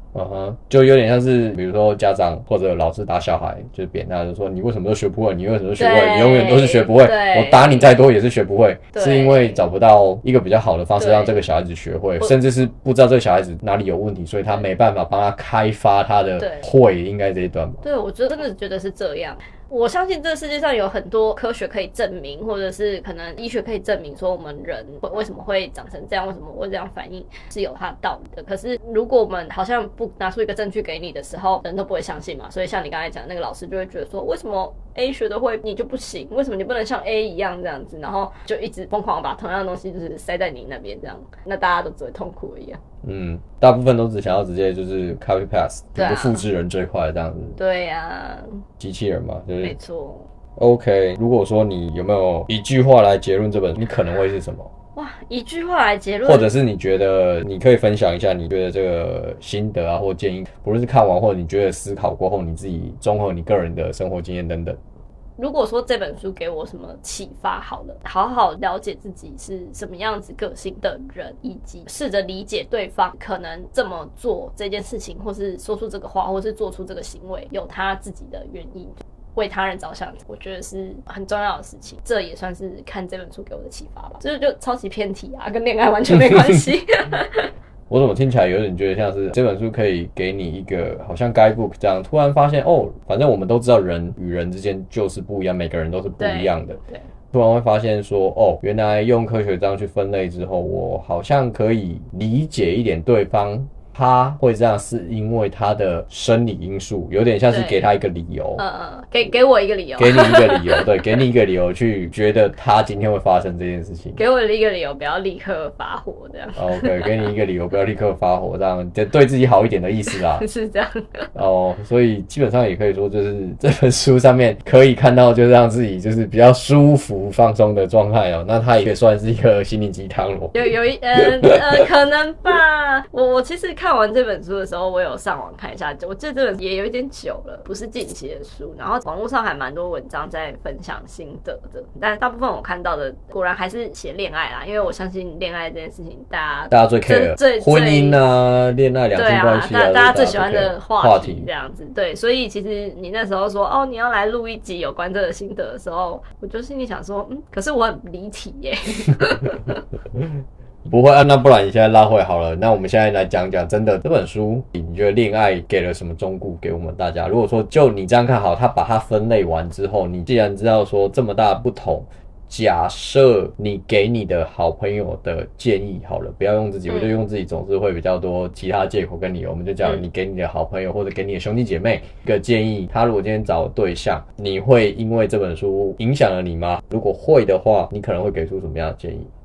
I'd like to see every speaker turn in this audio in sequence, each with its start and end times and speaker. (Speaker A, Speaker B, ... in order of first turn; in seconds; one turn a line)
Speaker A: 0.1-17.8
Speaker B: 5.8-7.9
Speaker B: 8.9-9.6
Speaker B: 11.0-11.5
Speaker B: 16.4-16.7
Speaker B: 17.8-42.8
Speaker A: 43.0-47.6
Speaker B: 46.0-46.5
Speaker B: 47.6-48.6
Speaker A: 48.8-49.8
Speaker B: 49.6-50.3
Speaker A: 50.6-54.7
Speaker B: 55.0-56.5
Speaker A: 56.2-64.8
Speaker B: 65.4-87.5
Speaker A: 87.9-96.8
Speaker B: 96.2-97.1
Speaker A: 97.3-108.6
Speaker B: 107.5-107.9
Speaker B: 108.6-111.2
Speaker A: 110.0-114.2
Speaker B: 114.2-117.3
Speaker A: 116.5-120.5
Speaker B: 120.1-121.3
Speaker A: 121.3-130.5
Speaker B: 130.5-148.2
Speaker A: 146.7-151.5
Speaker B: 149.1-159.8
Speaker A: 160.8-189.3
Speaker B: 176.9-177.2